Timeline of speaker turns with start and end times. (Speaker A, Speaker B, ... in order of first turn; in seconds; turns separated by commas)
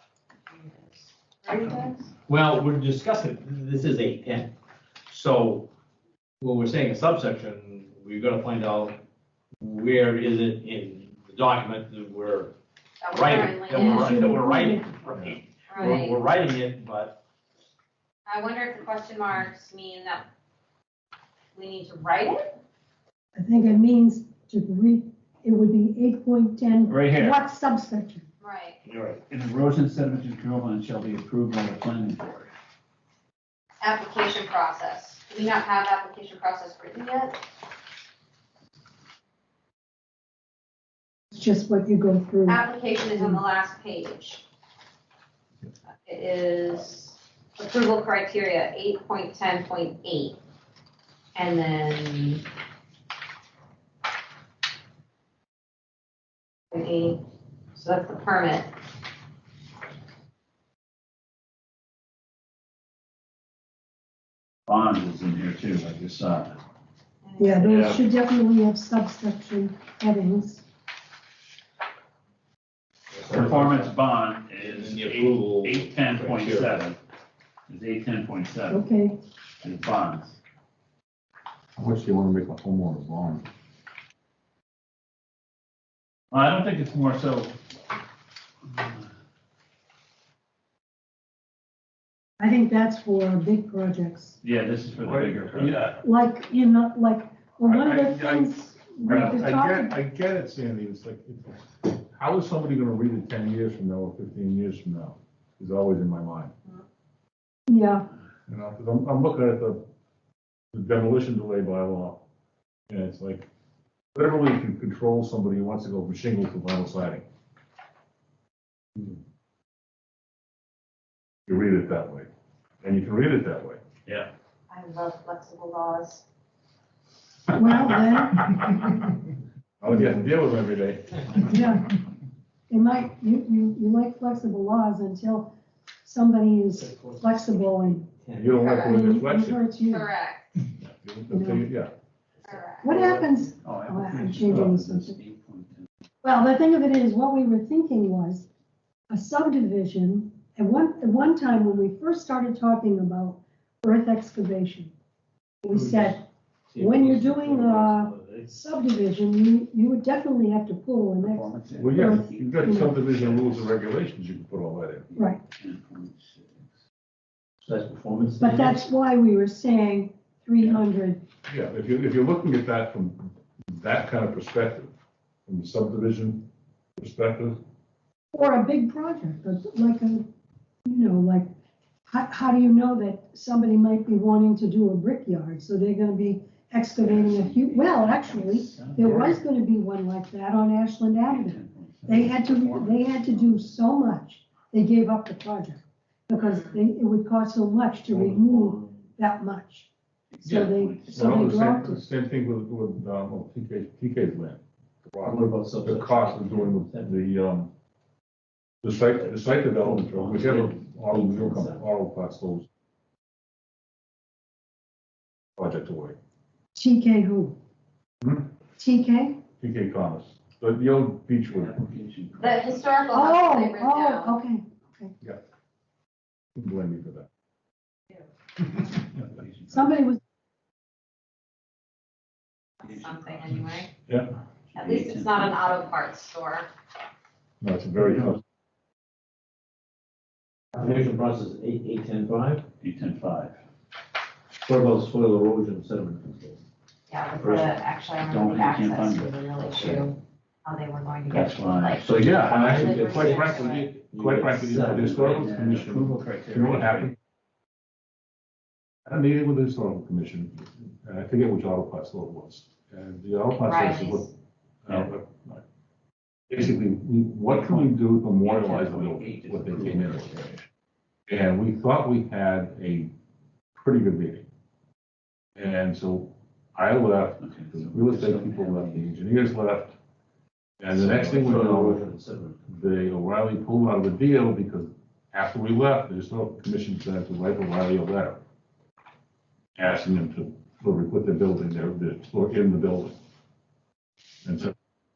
Speaker A: 0.5-2.1, Speaker B: 2.3-4.5, Speaker B: 5.1-5.7, Speaker B: 6.4-9.0, Speaker B: 9.6-12.5, Speaker A: 13.0-14.3, Speaker B: 13.1-17.2, Speaker C: 13.7-14.9, Speaker D: 15.1-15.4, Speaker A: 15.7-16.2, Speaker A: 18.3-20.2, Speaker A: 21.6-22.5, Speaker C: 23.4-28.3, Speaker E: 26.9-27.4, Speaker A: 28.4-28.8, Speaker B: 28.9-29.2, Speaker E: 29.3-32.5, Speaker A: 33.8-37.4, Speaker C: 41.3-43.4, Speaker A: 42.5-44.4, Speaker A: 46.0-50.4, Speaker A: 51.4-52.5, Speaker A: 56.7-57.2, Speaker A: 57.8-58.7, Speaker E: 64.7-66.6, Speaker A: 67.2-67.9, Speaker C: 67.4-70.6, Speaker E: 67.7-68.0, Speaker B: 73.1-74.0, Speaker E: 73.3-77.0, Speaker B: 74.5-76.9, Speaker E: 77.7-78.8, Speaker C: 78.7-79.2, Speaker E: 79.6-80.4, Speaker D: 81.8-83.5, Speaker E: 86.3-87.6, Speaker E: 88.7-89.0, Speaker C: 92.4-94.4, Speaker E: 94.4-96.0, Speaker D: 95.0-95.9, Speaker C: 96.0-100.0, Speaker D: 97.6-106.5, Speaker C: 107.7-108.1, Speaker D: 108.5-109.8, Speaker D: 110.7-112.2, Speaker D: 112.9-113.5, Speaker D: 114.1-117.2, Speaker D: 121.5-122.3, Speaker D: 122.8-123.8, Speaker A: 124.7-126.2, Speaker C: 127.5-128.8, Speaker D: 129.8-131.7, Speaker C: 131.4-131.9, Speaker C: 132.7-138.1, Speaker B: 136.7-138.8, Speaker D: 138.4-139.6, Speaker A: 138.6-138.9, Speaker C: 138.8-140.1, Speaker A: 139.8-140.5, Speaker D: 140.8-141.9, Speaker C: 141.3-141.7, Speaker B: 142.4-143.5, Speaker A: 142.4-142.9, Speaker C: 142.8-145.2, Speaker E: 143.6-145.9, Speaker C: 146.2-148.5, Speaker C: 149.1-154.9, Speaker C: 155.6-163.0, Speaker B: 155.7-156.1, Speaker B: 156.7-158.5, Speaker E: 161.2-163.8, Speaker D: 161.8-165.1, Speaker C: 165.2-165.4, Speaker E: 165.6-166.7, Speaker B: 167.6-168.8, Speaker C: 168.4-171.2, Speaker D: 171.5-174.9, Speaker D: 175.5-176.5, Speaker D: 177.0-177.6, Speaker C: 178.3-180.3, Speaker C: 180.8-181.5, Speaker C: 182.1-199.9, Speaker E: 187.0-189.4, Speaker D: 189.0-189.3, Speaker E: 191.3-193.5, Speaker A: 196.4-196.8, Speaker B: 198.1-198.9, Speaker E: 200.3-201.3, Speaker C: 200.4-202.0, Speaker D: 200.5-207.7, Speaker B: 205.2-207.2, Speaker D: 208.8-212.7, Speaker B: 209.2-211.9, Speaker D: 215.6-216.2, Speaker C: 216.7-217.6, Speaker D: 218.2-218.5, Speaker C: 218.8-219.4, Speaker D: 219.6-221.8, Speaker E: 221.5-222.9, Speaker A: 222.4-224.3, Speaker C: 223.1-225.1, Speaker D: 226.6-227.3, Speaker E: 229.3-229.9, Speaker C: 229.7-230.2, Speaker A: 232.8-233.9, Speaker E: 232.8-233.7, Speaker E: 234.7-235.9, Speaker A: 234.8-236.7, Speaker D: 237.6-238.4, Speaker E: 238.0-238.3, Speaker B: 240.7-242.7, Speaker E: 242.8-243.5, Speaker B: 244.7-246.6, Speaker A: 247.1-253.9, Speaker B: 247.4-247.8, Speaker E: 248.2-250.0, Speaker E: 251.3-252.2, Speaker B: 252.1-255.4, Speaker D: 252.1-257.1, Speaker E: 255.3-257.1, Speaker D: 259.1-264.3, Speaker A: 263.6-264.3, Speaker D: 264.9-265.6, Speaker D: 266.5-270.6, Speaker E: 267.6-267.9, Speaker E: 268.4-270.6, Speaker D: 271.3-273.1, Speaker D: 273.8-274.5, Speaker D: 275.6-280.0, Speaker E: 277.4-279.1, Speaker D: 280.8-282.1, Speaker B: 280.9-282.6, Speaker D: 282.7-288.4, Speaker D: 289.8-293.2, Speaker D: 294.4-294.7